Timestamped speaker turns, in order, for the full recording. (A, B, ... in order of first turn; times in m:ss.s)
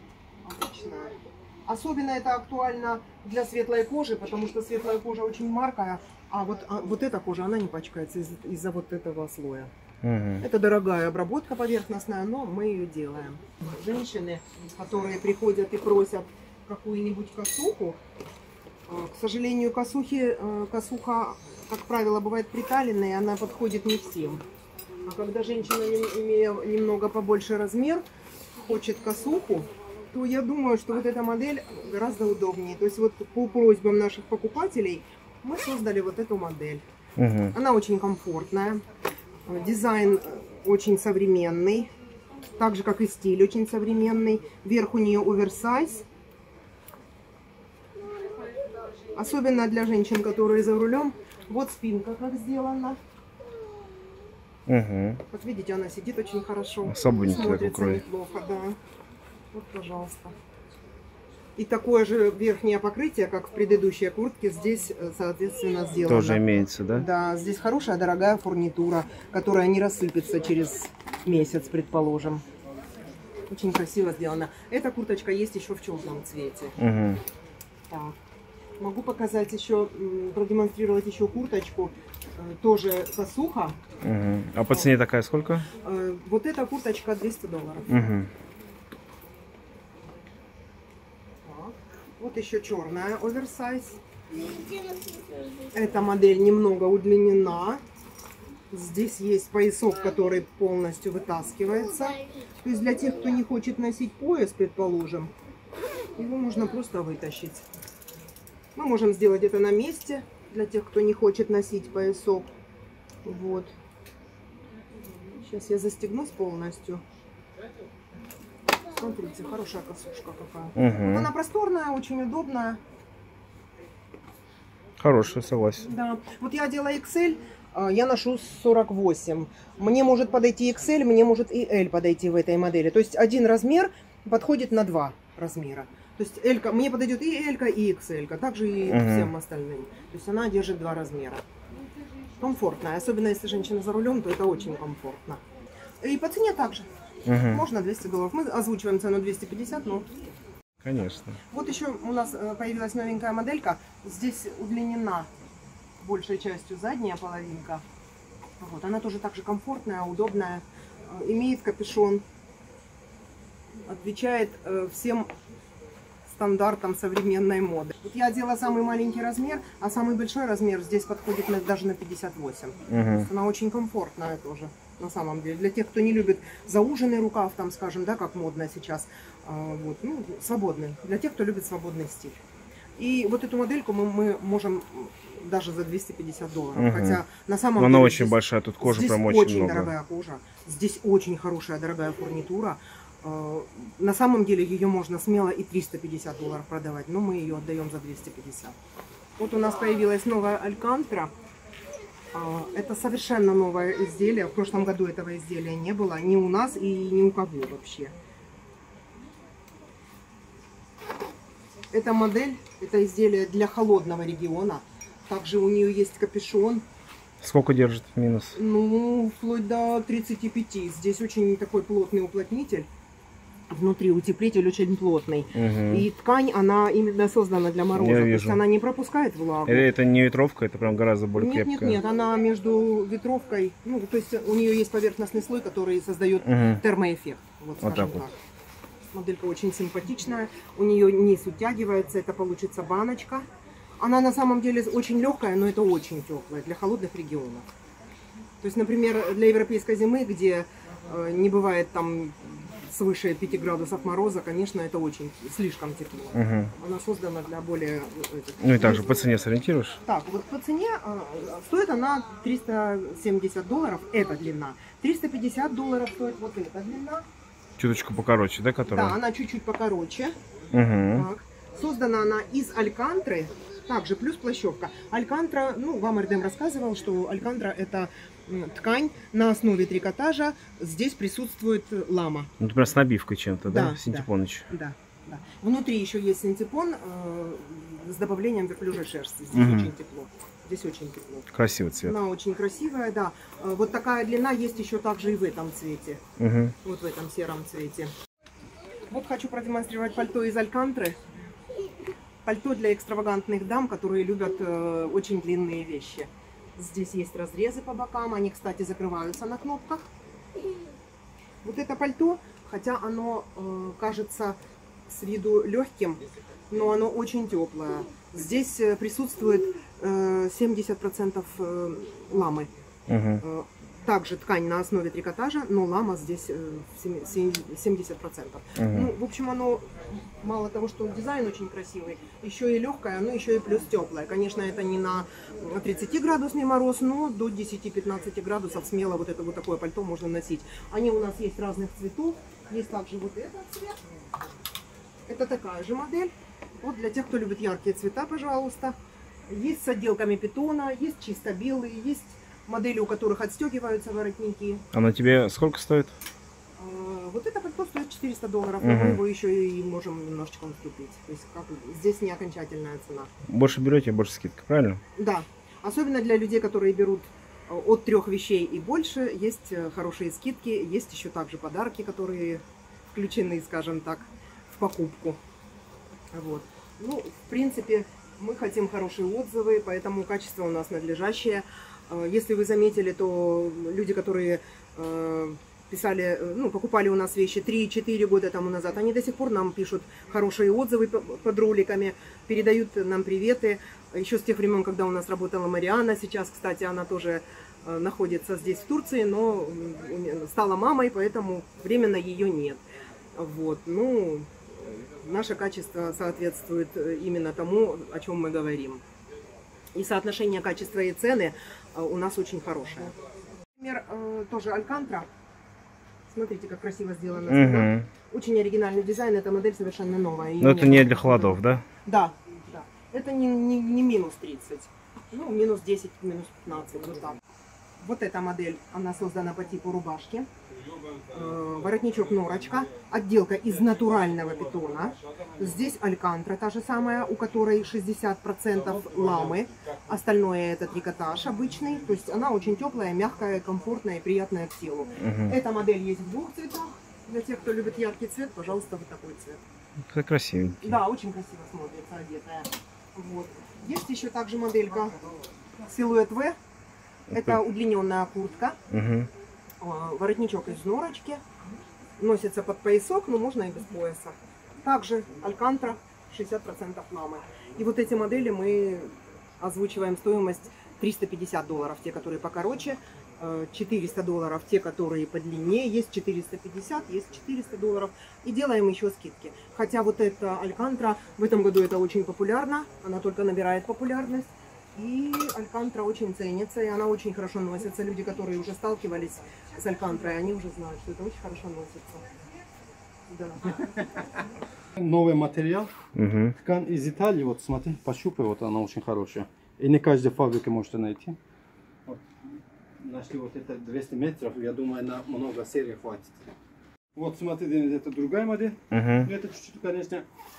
0:00.4-0:09.7 A
0:10.0-0:10.4 B
0:10.4-0:18.0 A
0:18.9-0:24.4 A
0:25.0-0:28.0 A
0:28.6-0:36.8 A
0:37.2-0:37.5 B
0:37.5-0:38.8 A
0:39.4-0:41.9 A
0:42.6-0:46.0 A
0:49.1-0:53.0 A
0:54.7-0:55.2 B
0:55.3-0:58.8 A
0:56.8-0:58.0 B
0:59.5-1:00.3 A
1:01.6-1:12.4 A
1:06.0-1:07.1 B
1:13.5-1:16.7 A
1:16.8-1:17.2 B
1:17.9-1:18.1 A
1:18.8-1:23.8 A
1:24.0-1:25.7 B
1:25.8-1:27.9 A
1:27.9-1:28.3 B
1:31.4-1:34.0 A
1:35.7-1:37.8 A
1:38.7-1:45.3 A
1:46.2-1:47.6 A
1:48.7-1:52.5 A
1:53.2-1:53.7 A
1:55.3-1:57.0 A
1:59.0-2:02.8 A
2:00.8-2:01.3 B
2:05.0-2:05.9 B
2:05.8-2:21.4 A
2:18.9-2:19.3 B
2:22.4-2:25.4 A
2:26.0-2:26.9 A
2:27.2-2:27.6 B
2:27.4-2:30.1 A
2:30.8-2:31.4 B
2:31.5-2:35.3 A
2:36.0-2:37.8 A
2:38.6-2:42.2 A
2:43.8-2:45.3 A
2:46.2-3:02.4 A
2:52.9-2:53.3 B
3:03.0-3:18.8 A
3:06.7-3:07.2 B
3:07.8-3:09.9 B
3:19.4-3:21.3 A
3:22.3-3:28.1 A
3:31.9-3:36.8 A
3:37.4-3:38.6 B
3:38.5-3:42.9 A
3:43.7-3:49.9 A
3:45.5-3:46.1 B
3:48.0-3:48.6 B
3:49.6-3:52.0 B
3:51.3-3:58.4 A
3:56.4-3:56.8 B
3:57.8-3:58.2 B
3:59.1-4:03.4 A
4:04.0-4:07.7 A
4:08.6-4:19.3 A
4:16.3-4:16.7 B
4:18.6-4:20.0 B
4:20.0-4:27.2 A
4:27.8-4:29.2 B
4:28.9-4:30.4 A
4:30.7-4:31.3 B
4:31.1-4:42.5 A
4:42.6-4:44.7 B
4:43.7-4:51.5 A
4:49.5-4:49.9 B
4:51.5-4:52.2 B
4:52.0-4:56.2 A
4:56.4-4:56.7 B
4:56.8-4:58.1 A
4:59.1-5:01.2 A
5:02.4-5:10.1 A
5:11.6-5:22.7 A
5:23.1-5:23.4 B
5:23.4-5:44.0 A
5:28.8-5:29.1 B
5:45.3-5:49.0 A
5:49.5-5:54.8 A
5:54.9-5:56.1 B
5:56.8-6:03.3 A
5:58.8-5:59.2 B
6:03.5-6:05.0 B
6:05.2-6:12.6 A
6:13.1-6:15.4 A
6:16.3-6:42.8 A
6:43.4-6:49.0 A
6:49.9-6:53.1 A
6:53.8-6:55.3 A
6:56.3-7:07.4 A
6:57.5-6:58.1 B
7:00.6-7:01.8 B
7:08.0-7:10.5 A
7:10.7-7:11.9 C
7:11.3-7:29.6 A
7:13.7-7:15.9 C
7:18.7-7:20.1 C
7:25.2-7:25.6 B
7:30.1-7:31.0 B
7:30.8-7:35.2 A
7:35.8-7:36.6 A
7:37.3-7:38.8 A
7:38.9-7:39.3 B
7:39.8-7:41.4 A
7:42.2-8:12.4 A
8:13.3-8:14.0 A
8:15.0-8:15.9 C
8:16.1-8:16.6 B
8:16.6-8:21.4 C
8:23.0-8:26.4 C
8:27.1-8:30.2 C
8:28.9-8:29.3 B